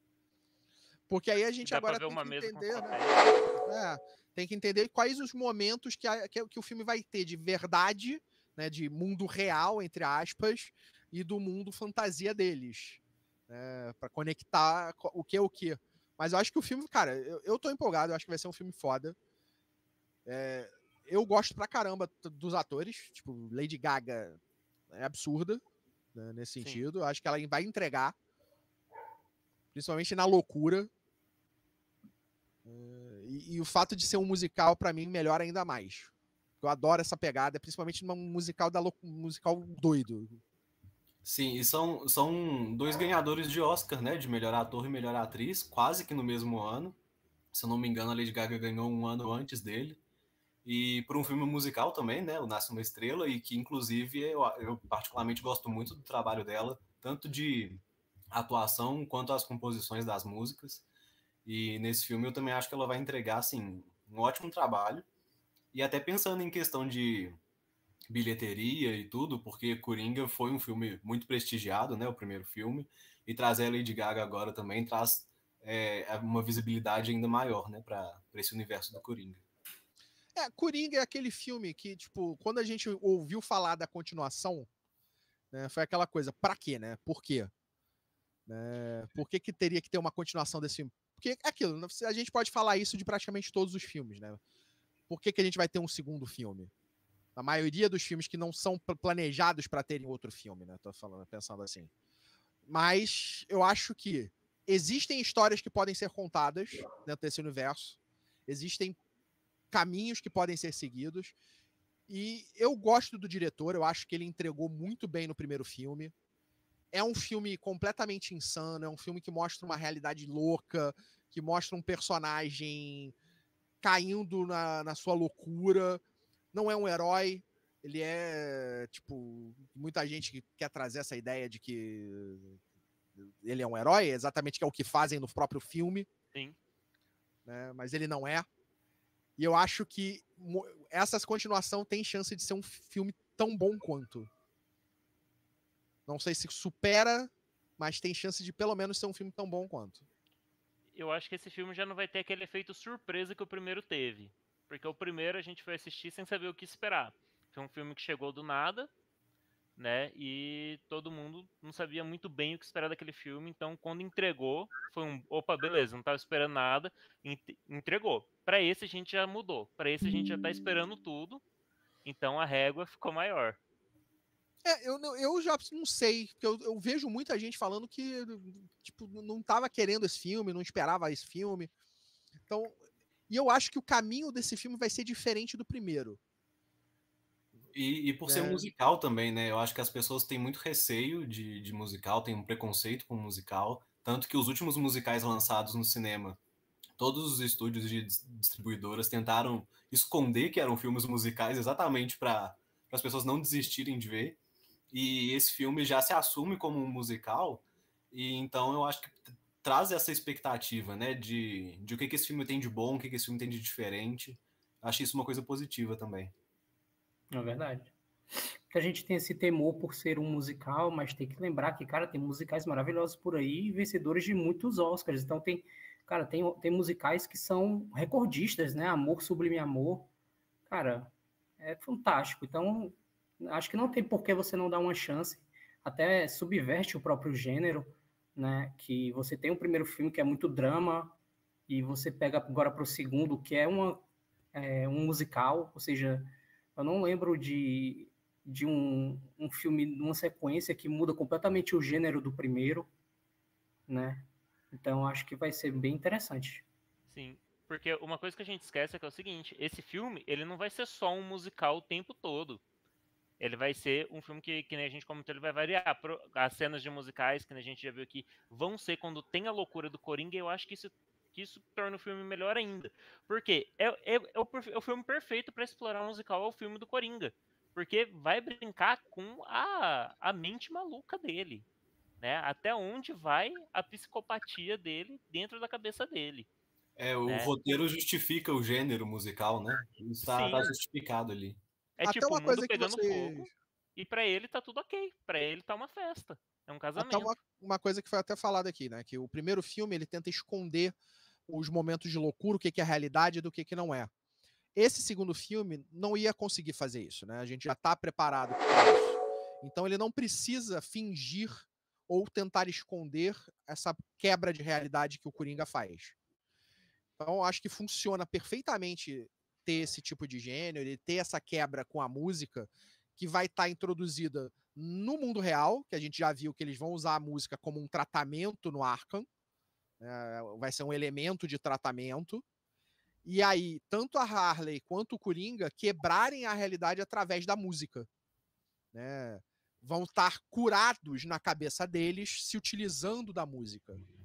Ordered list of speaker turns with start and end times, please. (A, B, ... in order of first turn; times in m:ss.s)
0:01.1-0:03.0 A
0:01.6-0:03.6 B
0:03.6-0:19.2 A
0:20.2-0:24.4 A
0:24.9-0:25.6 A
0:26.1-0:28.1 A
0:29.7-0:30.9 A
0:32.6-0:40.4 A
0:41.2-0:47.0 C
0:47.5-0:50.0 C
0:50.6-1:00.8 C
1:01.4-1:05.1 C
1:05.7-1:07.4 C
1:08.1-1:19.4 C
1:20.3-1:24.7 A
1:25.5-1:27.5 A
1:28.5-1:34.4 A
1:35.1-1:36.7 A
1:37.4-1:41.9 A
1:42.6-1:49.0 A
1:49.7-1:51.4 A
1:52.1-1:56.1 A
1:56.9-2:03.1 A
2:03.8-2:12.6 A
2:13.2-2:16.1 A
2:17.4-2:18.5 A
2:19.4-2:24.3 A
2:26.1-2:30.0 A
2:30.9-2:38.9 B
2:39.8-2:51.4 B
2:52.0-2:53.6 B
2:54.6-3:01.7 A
3:02.5-3:06.2 A
3:07.7-3:16.4 C
3:08.2-3:08.6 A
3:17.0-3:24.4 C
3:24.9-3:36.3 C
3:37.3-3:37.9 D
3:38.7-3:50.1 D
3:50.7-4:01.2 D
4:01.7-4:12.9 D
4:13.9-4:16.6 D
4:17.1-4:22.6 B
4:23.4-4:41.6 B
4:42.2-4:46.5 B
4:47.0-4:51.6 C
4:47.3-4:47.5 B
4:50.2-4:50.7 B
4:52.0-4:57.3 B
4:52.0-4:53.5 A
4:57.0-5:00.9 A
5:01.5-5:04.1 A
5:04.8-5:16.2 A
5:17.2-5:29.3 A
5:30.0-5:32.4 A
5:33.2-5:38.1 A
5:38.9-5:44.0 A